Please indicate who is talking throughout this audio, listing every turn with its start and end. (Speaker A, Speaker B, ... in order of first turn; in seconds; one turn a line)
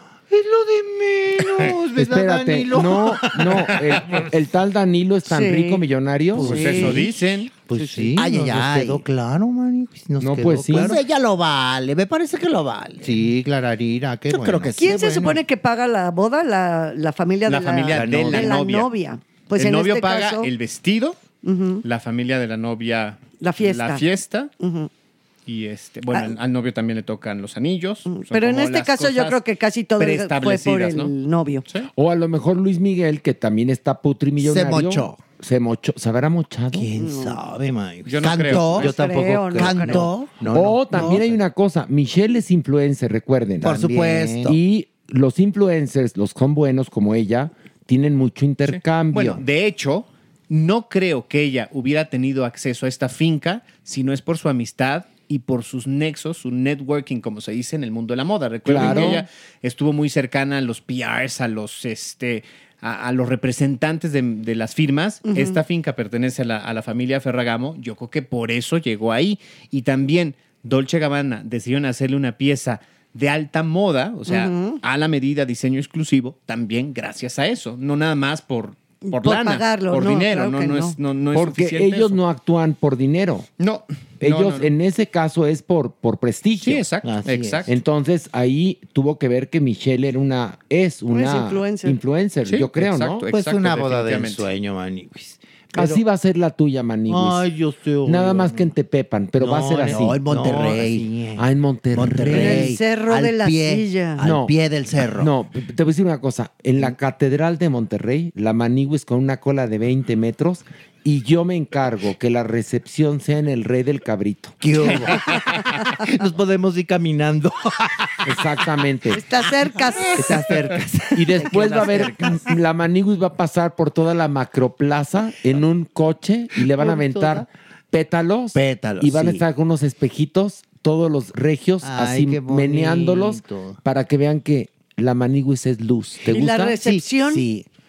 Speaker A: 0.3-4.3
Speaker B: 2.0-6.7
Speaker C: 5.3-5.8
Speaker A: 6.3-7.1
Speaker D: 6.4-7.5
Speaker C: 6.4-7.0
Speaker A: 7.7-11.1
Speaker E: 8.1-9.0
Speaker B: 10.2-11.0
Speaker E: 10.7-13.1
Speaker A: 13.0-15.4
Speaker E: 14.3-15.3
Speaker C: 14.8-20.5
Speaker D: 17.5-18.9
Speaker A: 17.9-18.6
Speaker D: 19.6-21.2
Speaker C: 21.4-21.8
Speaker D: 21.8-24.5
Speaker C: 23.4-24.0
Speaker C: 24.6-24.9
Speaker D: 25.4-29.4
Speaker C: 28.1-31.6
Speaker D: 30.0-31.1
Speaker B: 31.9-36.9
Speaker E: 34.4-35.2
Speaker A: 36.7-41.4
Speaker C: 37.0-37.4
Speaker D: 38.0-38.9
Speaker E: 38.2-38.9
Speaker C: 38.8-40.1
Speaker E: 39.5-40.4
Speaker B: 40.5-43.9
Speaker A: 43.6-44.6
Speaker E: 43.6-44.5
Speaker B: 44.4-49.4
Speaker D: 48.6-82.2
Speaker B: 58.6-59.2
Speaker C: 58.8-59.2
Speaker C: 65.3-65.6
Speaker C: 74.3-74.8
Speaker C: 79.0-81.0
Speaker B: 81.3-83.5
Speaker D: 83.6-84.7
Speaker B: 84.2-86.8
Speaker D: 86.6-87.7
Speaker A: 87.0-87.7
Speaker B: 87.7-93.2
Speaker C: 91.1-92.0
Speaker D: 92.4-94.5
Speaker A: 93.3-96.0
Speaker B: 95.7-97.4
Speaker A: 97.1-98.7
Speaker B: 98.0-100.2
Speaker A: 99.4-101.4
Speaker E: 99.9-101.1
Speaker B: 101.4-102.7
Speaker A: 102.0-102.6
Speaker E: 102.0-105.3
Speaker C: 102.3-104.2
Speaker B: 104.2-114.5
Speaker E: 114.6-115.2
Speaker A: 114.8-118.3
Speaker B: 118.2-119.2
Speaker C: 119.1-120.3
Speaker A: 120.1-122.5
Speaker B: 121.1-136.8
Speaker E: 121.6-122.0
Speaker A: 126.7-127.5
Speaker E: 128.5-129.4
Speaker A: 131.8-133.8
Speaker C: 136.3-137.5
Speaker A: 136.8-137.0
Speaker E: 137.3-137.7